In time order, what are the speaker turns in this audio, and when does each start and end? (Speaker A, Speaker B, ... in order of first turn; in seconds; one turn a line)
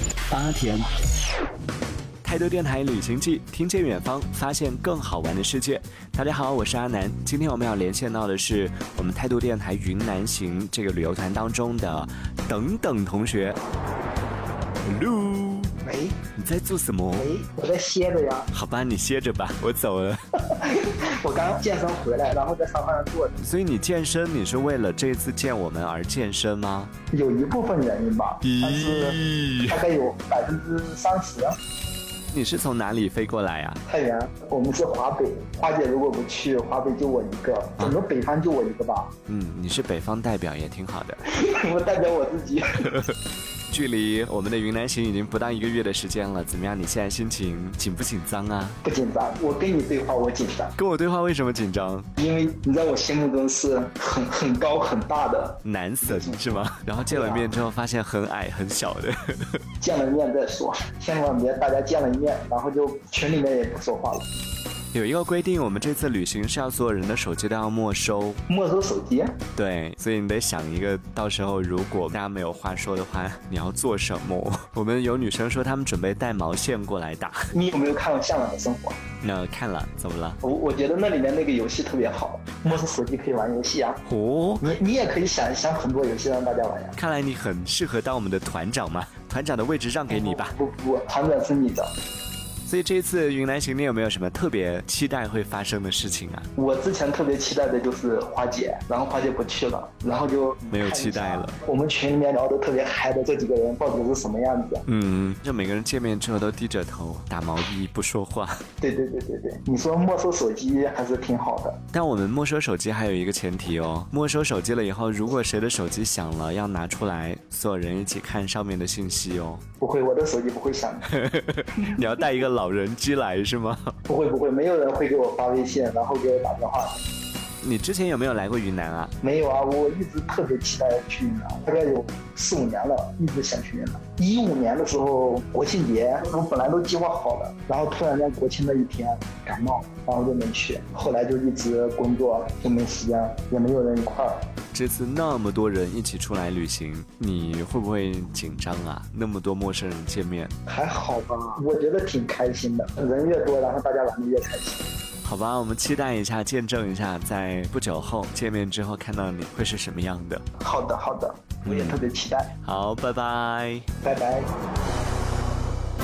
Speaker A: 0.3-0.9
Speaker A: 2.2-13.6
Speaker A: 14.8-15.8
Speaker B: 15.8-16.2
Speaker A: 16.4-17.3
Speaker B: 17.1-18.5
Speaker A: 18.5-20.2
Speaker B: 20.4-23.4
Speaker A: 23.4-26.9
Speaker B: 27.1-31.6
Speaker A: 28.4-29.8
Speaker A: 32.3-33.8
Speaker B: 33.9-39.1
Speaker A: 39.3-41.2
Speaker B: 41.3-43.0
Speaker A: 43.7-48.8
Speaker B: 48.8-50.7
Speaker A: 50.8-52.1
Speaker B: 52.2-57.6
Speaker A: 55.6-59.6
Speaker B: 59.8-64.3
Speaker A: 64.9-68.4
Speaker B: 68.5-69.4
Speaker A: 69.6-77.5
Speaker B: 77.5-79.0
Speaker A: 79.2-80.4
Speaker B: 80.4-84.0
Speaker A: 84.1-84.7
Speaker B: 84.6-87.0
Speaker A: 87.0-90.6
Speaker B: 90.1-91.9
Speaker A: 92.7-96.5
Speaker B: 96.6-104.8
Speaker A: 100.7-101.6
Speaker A: 104.9-108.6
Speaker B: 108.8-111.8
Speaker A: 111.9-119.6
Speaker B: 119.8-121.2
Speaker A: 121.1-123.9
Speaker B: 121.8-122.3
Speaker B: 124.1-127.0
Speaker A: 127.6-129.1
Speaker B: 129.2-144.5
Speaker A: 144.7-150.5
Speaker B: 150.7-154.8
Speaker A: 155.2-160.4
Speaker B: 160.6-162.5
Speaker A: 161.7-162.1
Speaker A: 162.6-163.8
Speaker B: 164.0-164.5